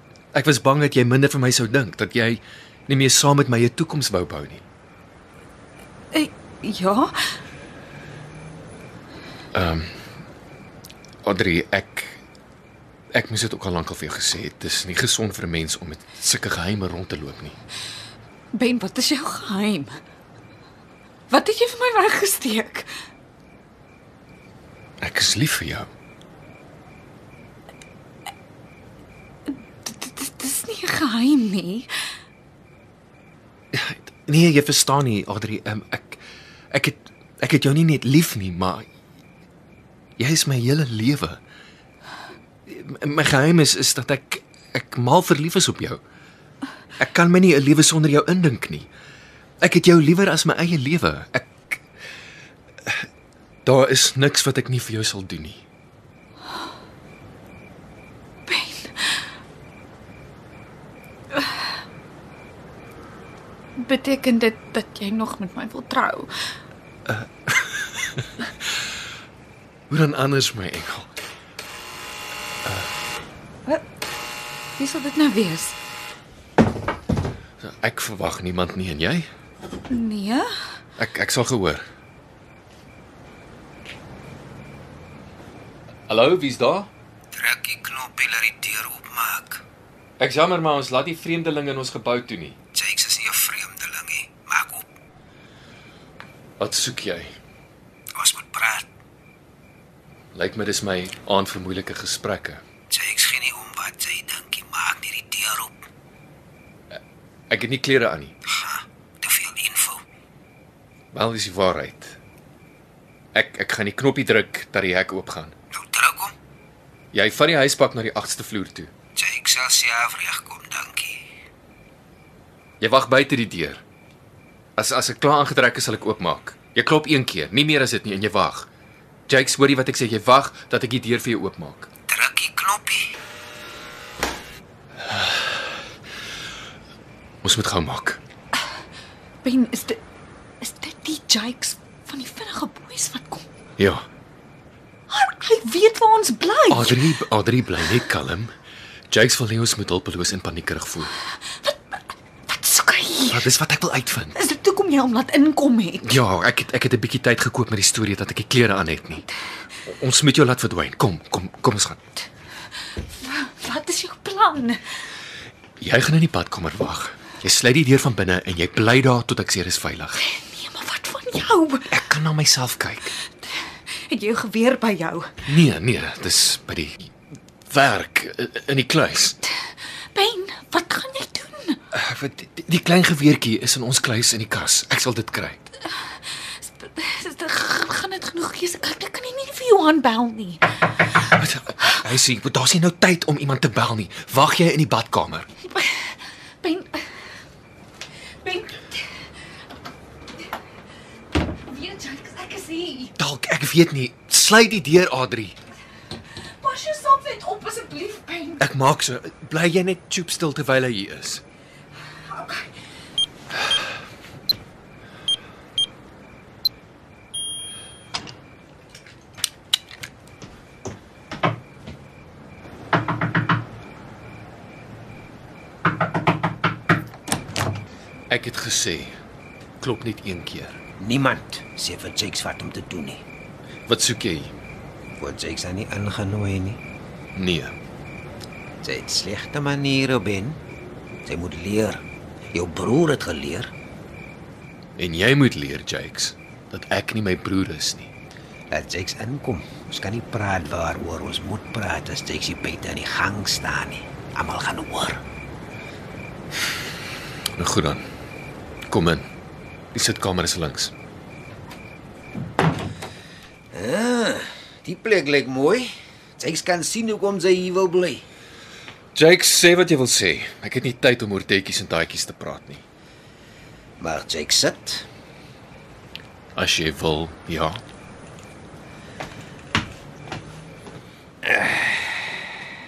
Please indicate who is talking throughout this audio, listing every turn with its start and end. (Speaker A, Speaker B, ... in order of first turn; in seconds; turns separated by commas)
Speaker A: 0.3-4.6, Speaker B: 6.1-7.2, Speaker A: 9.5-9.9, Speaker A: 11.2-12.2, Speaker A: 13.1-17.6, Speaker B: 18.5-19.9, Speaker B: 21.3-22.9, Speaker A: 25.0-25.9, Speaker B: 29.8-31.9, Speaker A: 33.7-36.2, Speaker A: 36.7-38.9, Speaker A: 40.2-41.4, Speaker A: 42.7-46.0, Speaker A: 47.0-48.9, Speaker A: 49.6-51.8, Speaker A: 53.6-55.6, Speaker B: 58.5-59.2, Speaker B: 63.8-66.3, Speaker A: 67.1-68.3, Speaker A: 69.9-71.1, Speaker A: 72.6-72.9, Speaker B: 74.8-75.8, Speaker A: 77.6-79.3, Speaker B: 79.9-80.5, Speaker A: 81.0-81.8, Speaker A: 86.1-86.9, Speaker C: 87.3-89.6, Speaker A: 90.2-92.5, Speaker C: 92.7-94.8, Speaker A: 96.6-97.3, Speaker C: 98.2-98.9, Speaker A: 100.3-102.6, Speaker C: 102.9-105.8, Speaker A: 107.5-108.3, Speaker C: 108.5-110.0, Speaker A: 111.1-112.2, Speaker A: 113.3-115.5, Speaker C: 115.7-116.3, Speaker A: 117.1-118.9, Speaker C: 119.2-121.2, Speaker A: 122.8-123.8, Speaker A: 124.8-128.7, Speaker A: 129.3-131.9, Speaker C: 132.1-133.1, Speaker A: 135.1-135.4, Speaker A: 137.4-138.2, Speaker B: 139.4-140.0, Speaker B: 140.6-143.4, Speaker A: 143.8-144.0, Speaker B: 145.1-147.1, Speaker A: 146.7-148.5, Speaker A: 149.1-151.1, Speaker B: 152.5-153.4, Speaker A: 153.3-154.3, Speaker B: 154.3-156.1, Speaker A: 156.0-159.2, Speaker A: 159.8-162.0, Speaker B: 162.9-164.8, Speaker A: 165.8-170.2, Speaker B: 170.2-171.9, Speaker A: 171.9-173.1, Speaker B: 174.1-175.3, Speaker A: 175.4-177.1, Speaker A: 177.7-179.4, Speaker B: 180.1-181.8, Speaker A: 181.9-185.6, Speaker B: 186.4-190.6, Speaker A: 191.3-195.5, Speaker B: 195.7-197.1, Speaker B: 198.4-199.0, Speaker B: 201.7-203.1, Speaker A: 203.2-205.6, Speaker B: 206.4-208.6, Speaker A: 208.6-211.4, Speaker B: 212.3-212.6, Speaker A: 228.3-229.1, Speaker A: 229.8-230.8, Speaker C: 231.0-233.2, Speaker A: 233.9-234.5, Speaker C: 235.2-236.8, Speaker A: 237.3-237.7, Speaker C: 238.8-240.6, Speaker C: 241.2-242.0, Speaker C: 242.5-243.7, Speaker A: 245.0-248.1, Speaker C: 248.7-255.2, Speaker A: 257.6-258.1, Speaker A: 258.9-259.2, Speaker A: 259.9-260.9, Speaker C: 263.7-268.2, Speaker A: 269.1-272.8, Speaker C: 274.0-275.1, Speaker A: 276.6-277.8, Speaker C: 281.4-282.4